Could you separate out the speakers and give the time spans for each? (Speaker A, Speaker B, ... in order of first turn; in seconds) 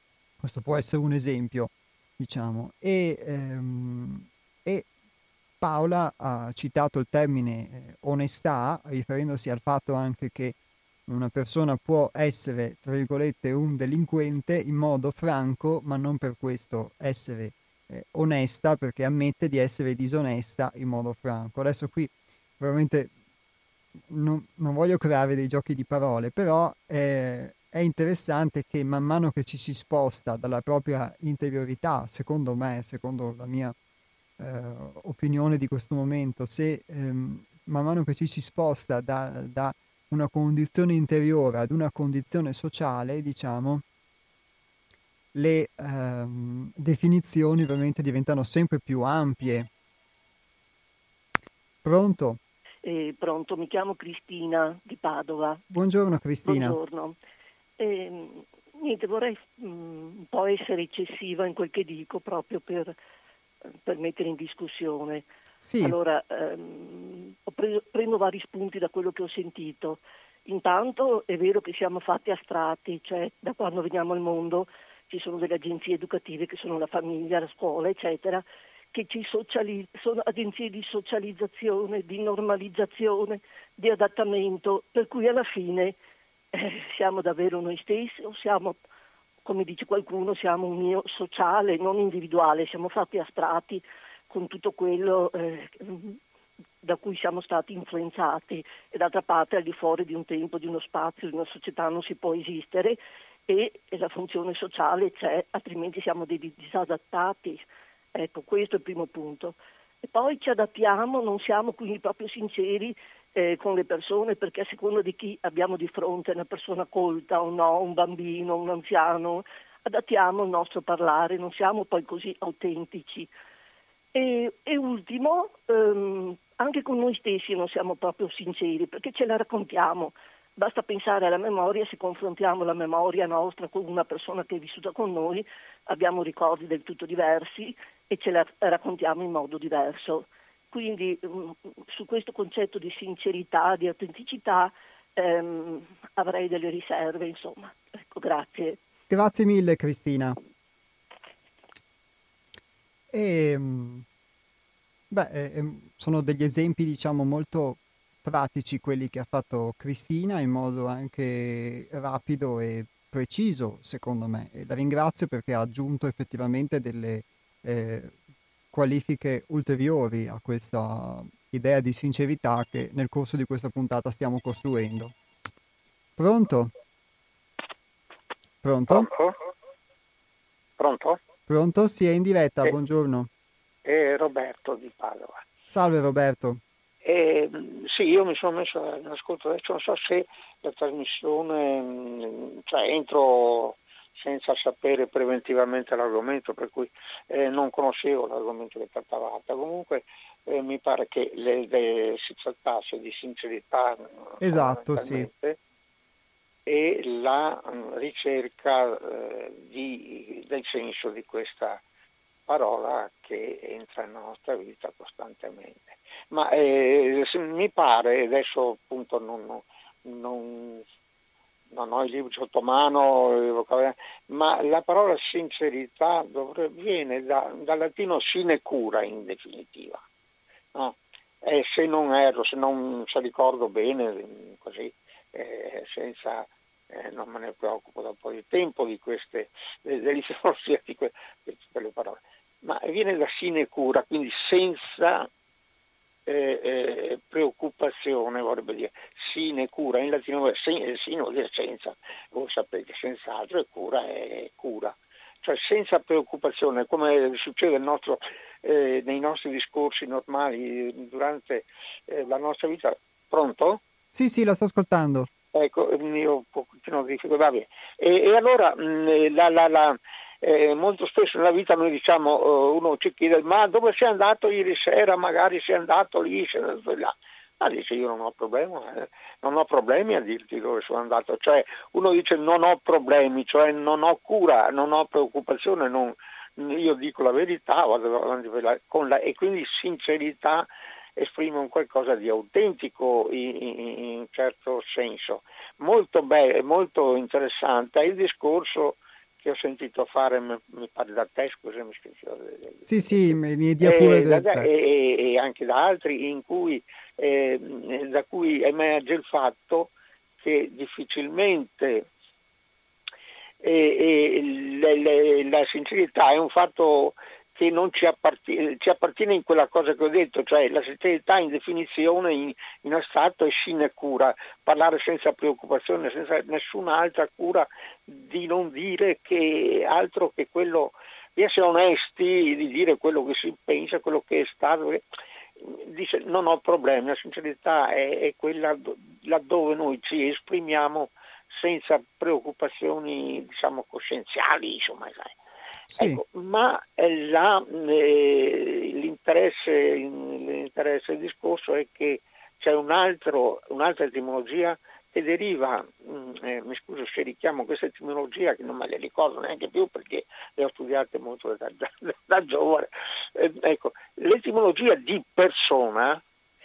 Speaker A: 0.4-4.9, 5.6-10.6, 11.1-23.1, 24.1-33.7, 34.4-43.8, 45.3-49.7, 51.8-52.4, 55.7-56.8, 65.6-66.0, 149.1-150.4, 153.1-154.0, 155.1-168.1, 168.7-175.1, 176.2-176.7, 178.6-179.1, 181.5-183.3, 185.7-186.6, 204.4-205.3, 264.1-265.3, 302.9-304.7, 345.9-346.2
Speaker B: 52.8-55.6, 56.4-57.2, 57.8-62.9, 63.7-65.2, 65.8-86.0, 86.5-88.8, 89.4-96.2, 96.8-123.3, 124.1-148.8
Speaker C: 178.9-179.3, 180.8-181.2, 183.8-185.4, 187.0-205.6, 206.7-211.8, 212.5-220.8, 221.7-230.0, 230.7-245.3, 246.3-263.8, 265.5-302.9, 303.8-312.1, 313.6-335.0, 335.6-345.3, 346.0-366.2